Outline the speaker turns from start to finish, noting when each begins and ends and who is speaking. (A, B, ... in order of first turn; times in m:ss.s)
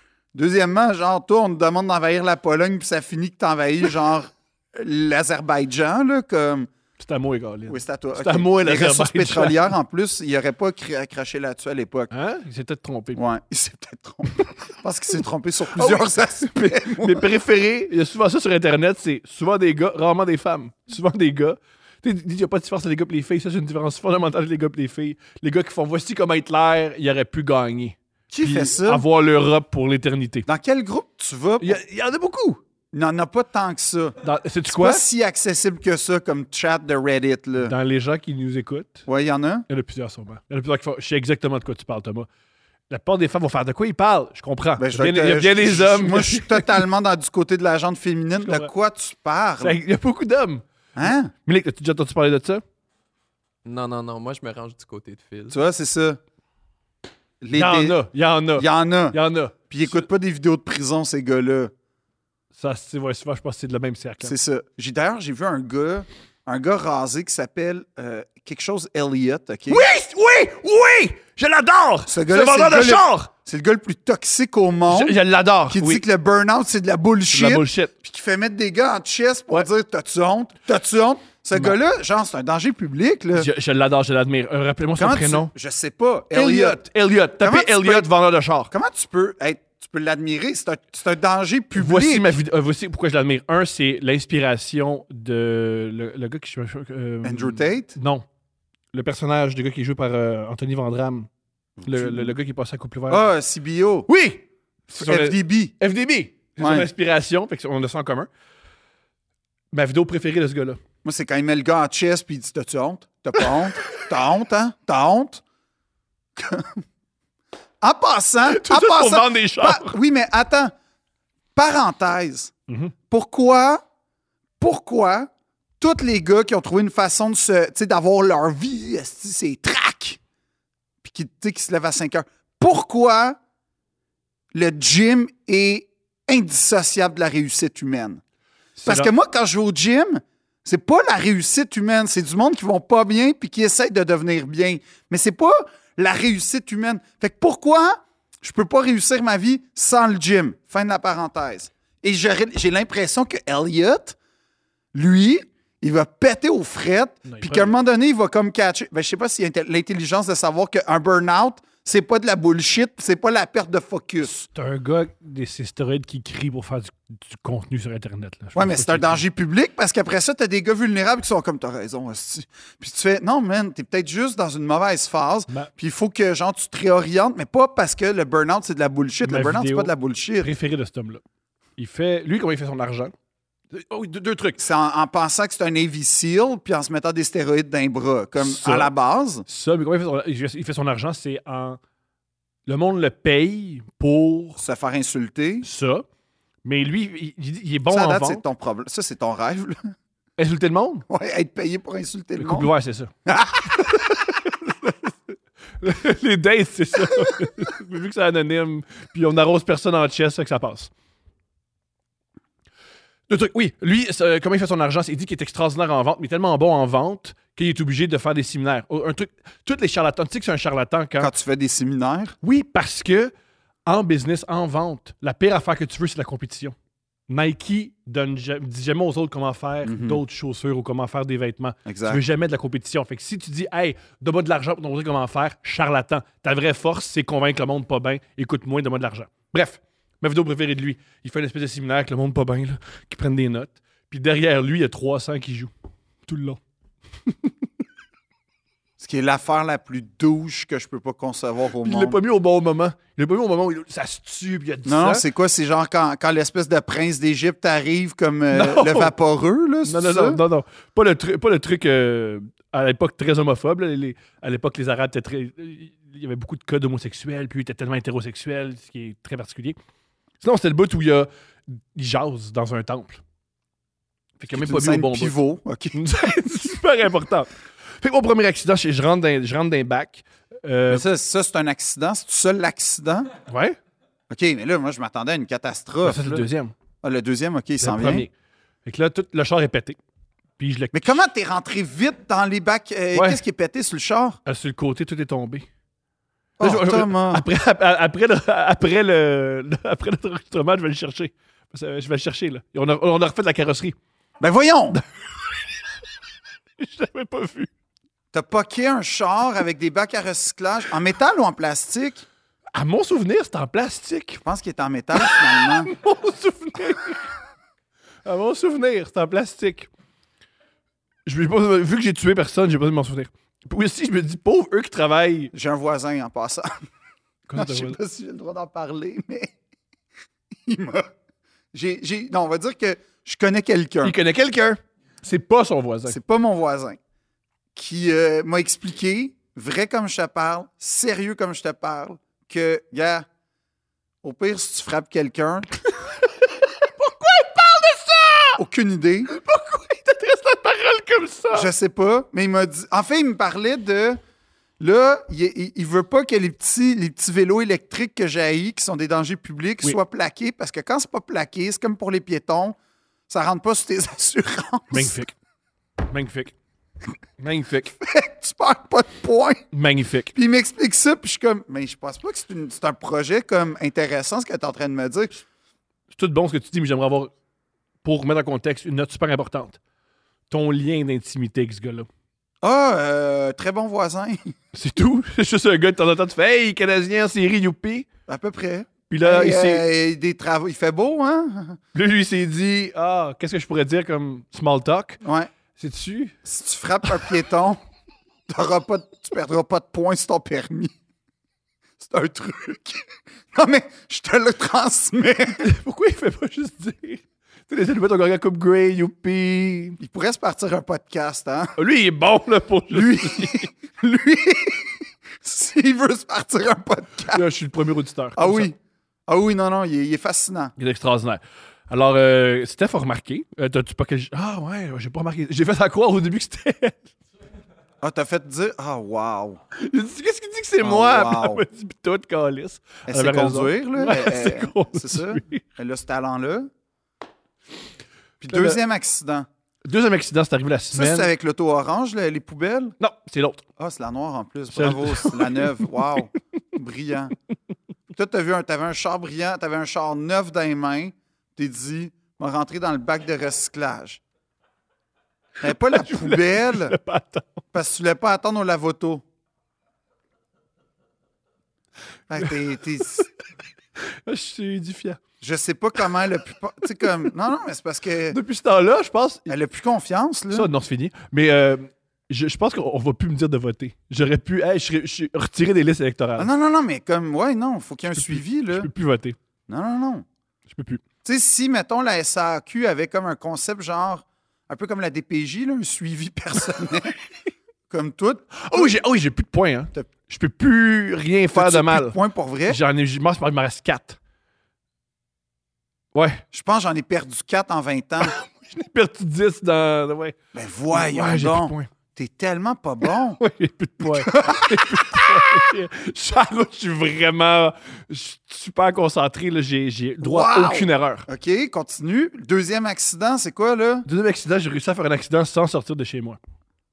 0:00.3-0:06.7 A
0:07.0-0:09.7 B
0:07.7-0:12.1 A
0:12.1-0:13.2 B
0:13.1-0:17.3 A
0:15.7-0:30.5 B
0:28.3-0:29.0 A
0:30.5-0:31.8 A
0:31.6-0:32.6 B
0:32.9-0:34.2 A
0:34.2-0:35.0 B
0:34.7-0:37.7 A
0:37.6-0:39.0 B
0:39.1-0:39.6 A
0:39.7-0:42.3 B
0:42.9-0:46.8 B
0:44.8-0:49.8 A
0:48.4-0:48.7 B
0:49.6-0:50.6 B
0:51.0-0:51.3 A
0:51.3-0:52.6 B
0:53.6-0:55.6 C
0:55.5-0:56.2 A
0:57.4-0:58.0 A
0:57.5-1:00.1 B
0:58.6-0:59.2 A
0:59.7-1:01.7 A
1:02.6-1:04.3 B
1:04.2-1:09.8 A
1:09.7-1:13.3 B
1:12.1-1:15.2 A
1:14.9-1:16.0 B
1:15.7-1:23.5 A
1:17.3-1:17.9 B
1:23.3-1:25.5 B
1:25.0-1:26.8 A
1:26.3-1:28.7 B
1:27.4-1:28.1 A
1:28.7-1:32.4 A
1:31.8-1:38.2 B
1:37.2-1:38.0 A
1:38.9-1:41.3 B
1:41.8-1:42.3 A
1:41.8-1:43.3 B
1:43.1-1:44.1 A
1:44.1-1:48.3 B
1:45.0-1:45.7 A
1:46.6-1:46.9 A
1:49.7-1:50.8 B
1:51.0-1:55.4 A
1:56.4-1:56.8 A
1:57.8-2:00.7 A
1:58.4-2:00.0 B
2:01.5-2:02.5 A
2:02.7-2:02.9 B
2:03.1-2:03.8 A
2:04.6-2:10.2 A
2:11.0-2:13.4 A
2:14.5-2:18.2 A
2:18.8-2:19.1 B
2:18.8-2:34.2 A
2:34.9-2:44.5 A
2:37.2-2:37.8 B
2:44.5-2:49.2 B
2:48.5-3:00.5 A
2:59.2-3:01.2 B
3:01.8-3:03.1 B
3:03.7-3:04.6 B
3:04.6-3:09.4 A
3:08.4-3:08.9 B
3:09.4-3:11.8 B
3:12.6-3:14.6 B
3:14.6-3:15.6 A
3:15.6-3:16.0 B
3:16.6-3:18.4 B
3:17.9-3:19.9 A
3:20.4-3:21.0 B
3:21.1-3:22.7 A
3:22.4-3:23.1 B
3:23.2-3:24.2 A
3:23.8-3:30.9 B
3:33.3-3:41.3 B
3:41.2-3:42.4 A
3:42.4-3:43.3 B
3:43.8-3:46.7 B
3:47.3-4:05.7 B
3:49.8-3:50.2 A
3:51.8-3:52.2 A
4:06.2-4:06.6 B
4:09.0-4:12.2 A
4:11.8-4:15.2 B
4:14.8-4:20.4 A
4:18.5-4:19.1 B
4:19.8-4:29.8 B
4:30.4-4:33.2 B
4:34.4-4:35.4 B
4:34.5-4:36.0 A
4:35.9-4:41.0 B
4:40.9-4:43.3 A
4:43.5-4:43.8 B
4:44.3-4:46.5 A
4:46.0-4:46.7 B
4:47.0-4:48.3 A
4:47.8-4:48.3 B
4:48.8-4:50.0 B
4:50.6-4:51.3 B
4:50.9-4:54.4 A
4:53.1-4:53.4 B
4:54.4-4:55.7 B
4:56.6-4:57.4 A
4:56.6-5:04.0 B
5:04.4-5:05.0 A
5:06.8-5:07.7 B
5:08.3-5:12.2 A
5:12.7-5:14.4 B
5:14.4-5:15.9 A
5:15.2-5:17.3 B
5:18.2-5:19.9 B
5:21.2-5:25.5 B
5:25.5-5:26.8 A
5:27.5-5:28.0 B
5:27.5-5:29.5 A
5:30.6-5:31.1 A
5:31.7-5:34.1 A
5:34.0-5:36.2 B
5:36.1-5:37.0 A
5:37.7-5:43.2 A
5:44.2-5:45.7 A
5:46.4-5:48.6 B
5:48.6-5:49.3 A
5:49.3-5:51.7 B
5:51.5-5:54.2 A
5:54.8-6:02.8 A
6:03.3-6:05.1 A
6:04.9-6:05.3 B
6:06.0-6:06.5 B
6:07.4-6:07.9 B
6:07.9-6:09.6 A
6:09.7-6:10.3 B
6:10.3-6:15.4 A
6:16.1-6:17.3 B
6:18.0-6:19.8 B
6:20.5-6:22.1 B
6:22.6-6:24.5 A
6:24.7-6:28.0 B
6:28.3-6:31.8 A
6:29.1-6:29.8 B
6:31.9-6:35.2 B
6:35.2-6:35.5 A
6:35.8-6:36.4 B
6:36.4-6:37.8 A
6:38.5-6:40.9 A
6:42.0-6:45.7 A
6:45.6-6:50.0 B
6:50.0-6:51.8 A
6:51.8-6:53.7 B
6:52.9-6:57.5 A
6:57.3-6:58.7 B
6:58.4-6:58.8 A
6:59.3-7:00.7 A
7:00.8-7:07.1 B
7:08.0-7:09.6 A
7:09.7-7:15.6 B
7:10.8-7:11.6 A
7:13.1-7:16.7 A
7:18.4-7:19.5 A
7:18.5-7:18.8 B
7:19.8-7:21.3 B
7:20.9-7:23.0 A
7:23.0-7:23.6 B
7:23.8-7:27.3 A
7:24.7-7:25.9 B
7:28.1-7:34.2 A
7:35.6-7:37.0 A
7:35.7-7:37.6 B
7:37.7-7:39.2 A
7:42.3-7:43.3 A
7:44.0-7:45.2 B
7:45.4-7:48.4 A
7:48.3-7:49.5 B
7:49.5-7:50.7 A
7:50.5-7:56.5 B
7:56.4-7:58.9 A
7:58.1-7:59.4 B
7:59.7-8:00.2 A
8:00.7-8:01.0 B
8:01.2-8:07.2 A
8:07.9-8:09.0 A
8:08.6-8:14.2 B
8:11.5-8:12.8 A
8:16.1-8:16.4 B
8:16.5-8:18.3 A
8:18.2-8:20.4 B
8:20.5-8:23.4 A
8:20.9-8:21.9 B
8:23.4-8:31.3 B
8:24.0-8:25.6 A
8:30.2-8:34.1 A
8:34.0-8:36.4 B